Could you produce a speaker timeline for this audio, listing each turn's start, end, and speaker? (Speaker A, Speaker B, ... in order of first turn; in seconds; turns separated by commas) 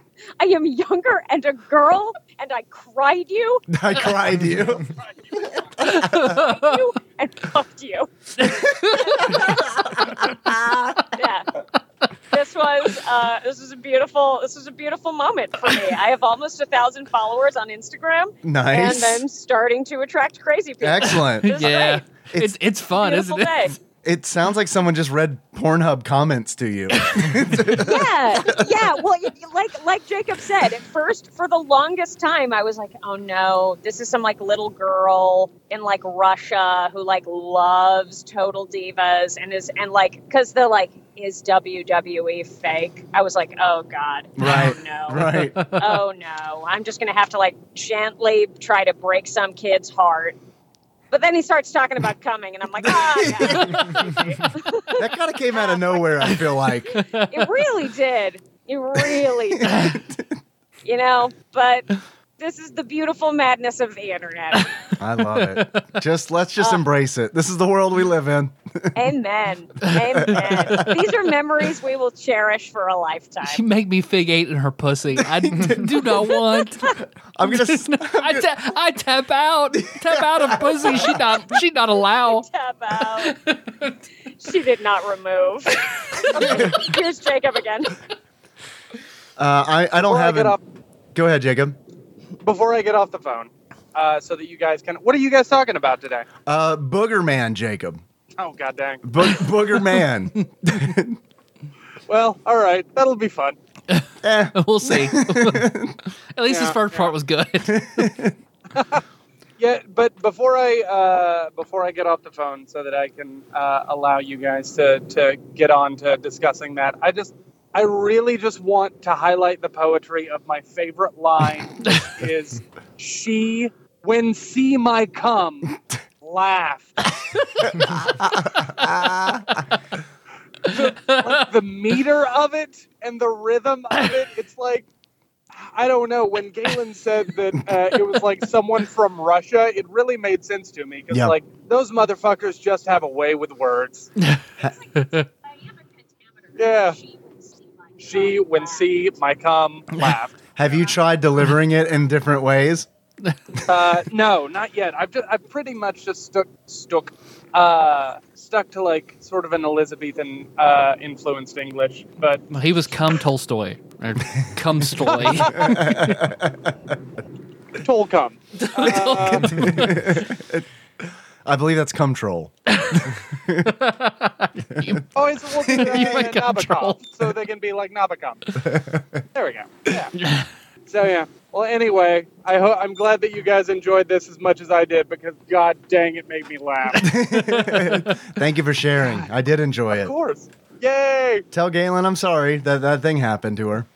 Speaker A: 0.4-3.6, Speaker B: 3.7-4.9, Speaker A: 5.8-10.2, Speaker B: 5.8-6.3, Speaker C: 5.8-6.6, Speaker C: 8.4-9.4, Speaker B: 9.9-11.0, Speaker A: 11.1-11.5, Speaker A: 12.3-22.0, Speaker B: 18.4-19.2, Speaker B: 20.8-21.8, Speaker C: 21.4-23.7, Speaker B: 22.3-22.6, Speaker A: 22.9-23.8, Speaker B: 24.0-28.8, Speaker C: 27.0-27.6, Speaker A: 27.8-50.4, Speaker B: 44.4-45.6, Speaker C: 45.1-46.0, Speaker A: 51.1-59.9, Speaker B: 52.9-54.0, Speaker C: 53.6-53.9, Speaker B: 54.9-57.0, Speaker C: 56.9-57.5, Speaker B: 59.6-60.3, Speaker C: 59.7-60.0, Speaker A: 60.8-64.8, Speaker C: 64.5-65.9, Speaker B: 65.0-69.0, Speaker A: 68.9-73.6, Speaker C: 69.8-70.9, Speaker B: 70.2-70.9, Speaker C: 73.4-82.5, Speaker B: 75.2-76.0, Speaker B: 77.3-78.5, Speaker B: 79.7-81.2, Speaker A: 82.2-83.3, Speaker C: 83.2-84.0, Speaker A: 84.4-88.0, Speaker C: 86.3-86.7, Speaker B: 89.4-90.6, Speaker D: 90.0-90.6, Speaker B: 91.1-91.8, Speaker D: 92.4-96.3, Speaker B: 96.5-98.0, Speaker D: 98.4-99.1, Speaker B: 99.0-101.2, Speaker D: 102.1-103.6, Speaker C: 103.9-105.7, Speaker B: 104.2-106.0, Speaker C: 106.3-108.2, Speaker D: 106.5-107.1, Speaker B: 107.7-108.3, Speaker D: 108.7-109.0, Speaker D: 109.6-127.2, Speaker C: 127.5-127.9, Speaker B: 127.6-129.7, Speaker D: 130.7-134.9, Speaker C: 130.7-131.4, Speaker D: 135.5-144.1, Speaker B: 141.1-141.3, Speaker A: 144.6-149.0, Speaker C: 144.9-145.2, Speaker D: 146.6-147.0, Speaker D: 148.0-150.4, Speaker B: 150.6-152.9, Speaker C: 153.2-153.6, Speaker D: 153.7-162.4, Speaker C: 162.5-166.2, Speaker D: 165.1-165.8, Speaker B: 165.4-166.8, Speaker D: 167.8-169.7, Speaker C: 168.6-170.1, Speaker B: 169.2-173.7, Speaker C: 172.7-177.1, Speaker D: 175.1-178.6, Speaker B: 175.6-176.2, Speaker B: 178.6-179.2, Speaker D: 179.3-180.1, Speaker C: 180.2-180.5, Speaker D: 180.9-187.2, Speaker B: 186.9-190.1, Speaker C: 187.3-188.2, Speaker D: 189.9-191.4, Speaker B: 191.5-193.9